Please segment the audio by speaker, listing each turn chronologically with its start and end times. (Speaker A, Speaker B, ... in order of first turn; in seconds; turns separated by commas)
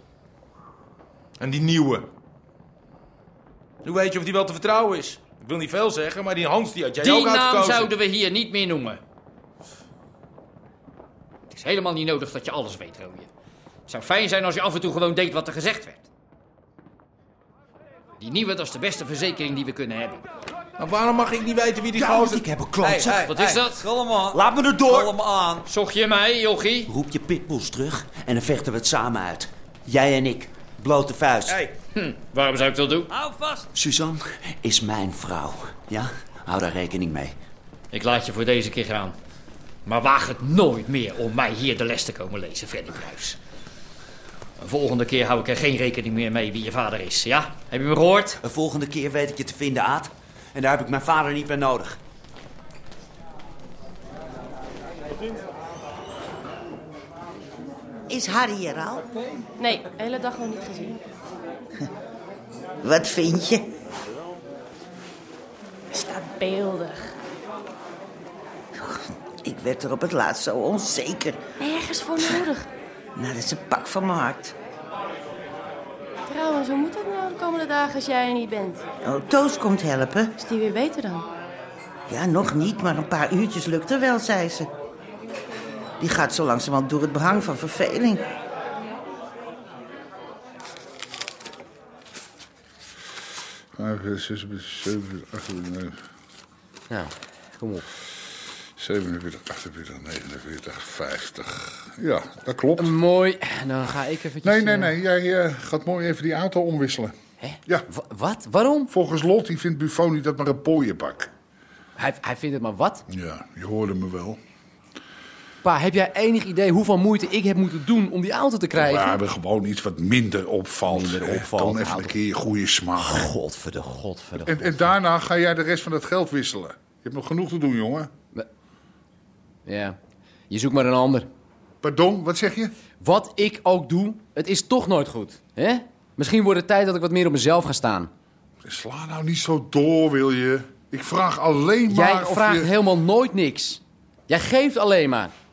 Speaker A: 1.4-2.1, Speaker A: 3.8-7.9, Speaker B: 7.0-9.0, Speaker B: 11.5-13.3, Speaker B: 13.9-16.0, Speaker B: 18.2-20.2, Speaker A: 20.8-23.6, Speaker C: 21.9-23.3, Speaker B: 23.3-23.8, Speaker C: 24.1-25.6, Speaker B: 25.6-26.9, Speaker C: 26.9-31.7, Speaker B: 31.9-33.1, Speaker C: 33.7-37.4, Speaker B: 37.9-39.1, Speaker B: 39.8-43.4, Speaker B: 44.6-48.4, Speaker C: 48.4-52.0, Speaker D: 58.1-59.0, Speaker E: 59.6-61.0, Speaker D: 62.8-63.6, Speaker E: 65.9-67.1, Speaker D: 68.9-71.4, Speaker E: 71.6-72.7, Speaker D: 73.2-74.5, Speaker E: 76.3-78.8, Speaker D: 79.0-80.3, Speaker E: 80.4-81.3, Speaker D: 82.1-84.7, Speaker D: 86.0-88.2, Speaker F: 93.8-96.0, Speaker G: 96.9-97.8, Speaker F: 98.8-102.9, Speaker G: 102.8-105.0, Speaker F: 104.4-107.1, Speaker G: 107.4-108.9, Speaker F: 108.9-111.3, Speaker G: 112.0-113.0, Speaker F: 113.1-114.4, Speaker G: 115.6-119.2, Speaker F: 118.8-123.3, Speaker G: 120.8-122.2, Speaker F: 124.4-128.1, Speaker G: 129.7-130.0, Speaker G: 130.5-131.3, Speaker F: 131.8-132.7, Speaker G: 133.0-138.1, Speaker F: 138.6-142.7, Speaker G: 141.9-145.3